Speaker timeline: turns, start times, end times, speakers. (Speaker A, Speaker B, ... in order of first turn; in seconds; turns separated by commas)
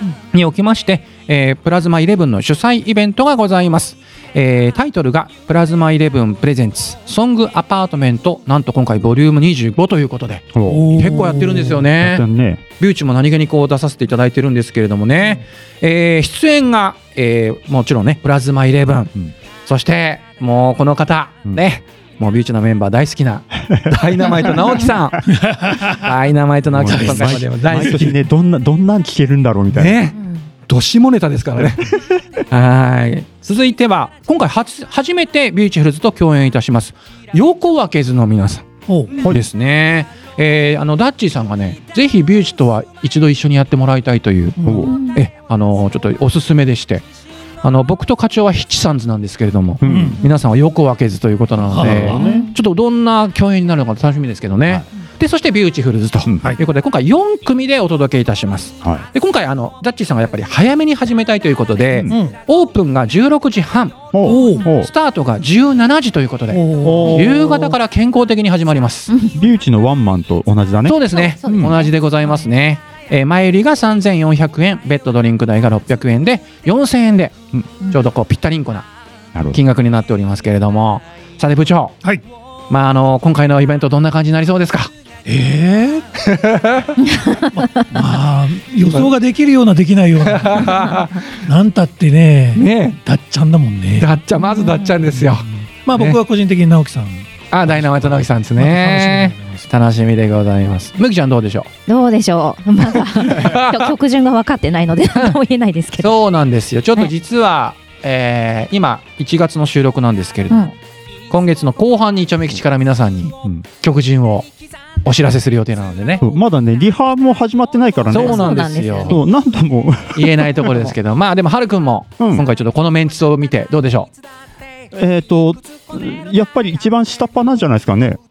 Speaker A: 0.1-12.2, Speaker B: 10.5-11.3, Speaker C: 10.7-11.8, Speaker B: 12.0-12.6, Speaker A: 12.8-19.1, Speaker A: 19.6-28.1, Speaker B: 23.7-24.6, Speaker C: 25.3-26.1, Speaker B: 26.7-30.0, Speaker C: 26.9-28.1, Speaker A: 29.7-47.0, Speaker C: 38.9-39.1, Speaker C: 44.6-44.9, Speaker B: 44.6-44.9, Speaker D: 44.8-45.2, Speaker A: 47.6-69.1, Speaker B: 49.8-50.2, Speaker C: 49.8-50.2, Speaker C: 51.7-52.4, Speaker B: 51.7-52.5, Speaker D: 52.2-52.5, Speaker B: 56.2-56.6, Speaker C: 62.1-62.4, Speaker B: 64.1-64.9, Speaker C: 64.2-64.7, Speaker D: 64.3-64.7, Speaker C: 66.5-67.3, Speaker B: 66.8-67.8, Speaker B: 69.3-71.8, Speaker A: 70.8-78.9, Speaker D: 71.4-72.4, Speaker A: 79.5-82.0, Speaker A: 82.7-84.9, Speaker C: 85.2-86.0, Speaker A: 86.2-87.0, Speaker D: 87.0-87.4, Speaker C: 87.5-94.1, Speaker A: 88.8-89.1, Speaker A: 90.2-91.4, Speaker A: 92.5-93.0, Speaker A: 94.0-96.2, Speaker D: 94.4-94.9, Speaker C: 95.1-99.7, Speaker A: 97.5-101.7, Speaker D: 101.9-106.1, Speaker A: 103.2-103.9, Speaker A: 106.0-110.7, Speaker A: 111.3-114.5, Speaker A: 115.0-116.2, Speaker B: 116.2-120.9, Speaker A: 118.1-119.2, Speaker D: 118.1-119.2, Speaker A: 120.1-124.1, Speaker B: 122.2-122.4, Speaker B: 124.9-128.2